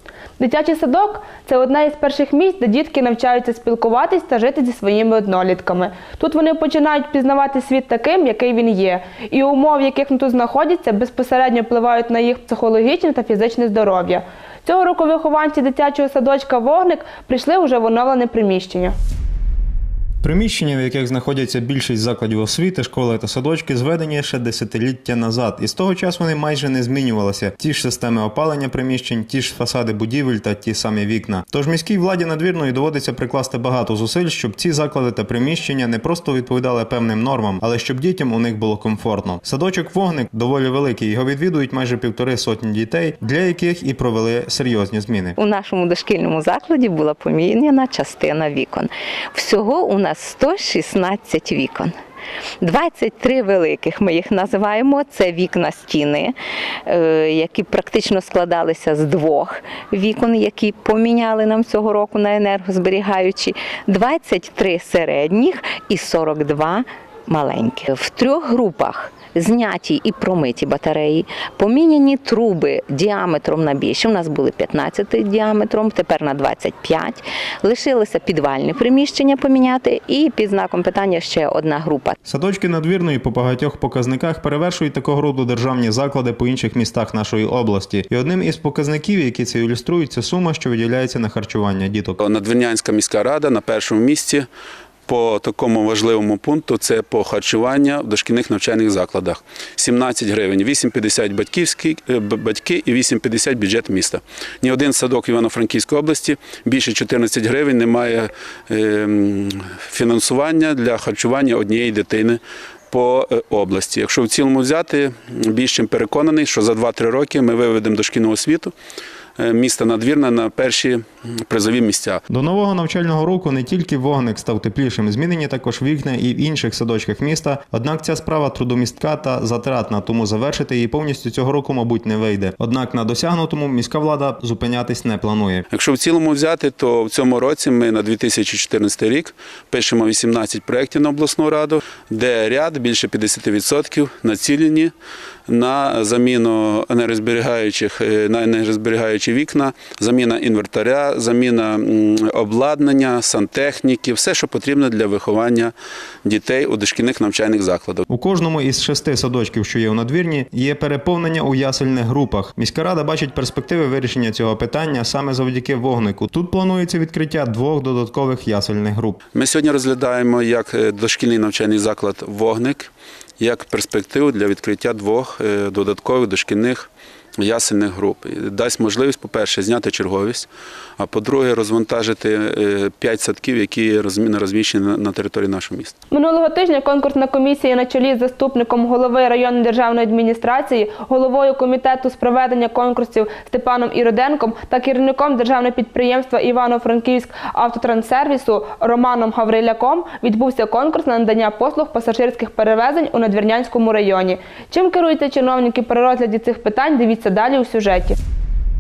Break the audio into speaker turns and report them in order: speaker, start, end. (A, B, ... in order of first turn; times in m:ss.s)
0:00.4-0:18.9 A
0:20.2-0:45.4 B
0:45.4-0:52.0 C
0:52.6-0:56.4 C
0:56.9-1:22.2 C
1:22.3-1:32.2 B
1:32.2-1:34.5 D
1:35.1-1:52.4 D
1:52.9-1:58.7 D
1:59.4-2:02.2 D
2:02.3-2:15.6 B
2:15.7-2:24.9 D
2:25.5-2:35.7 D
2:36.2-2:38.0 D
2:38.1-2:49.2 B
2:49.3-2:56.9 D
2:57.4-3:00.5 D
3:01.0-3:06.0 D
3:06.1-3:28.2 A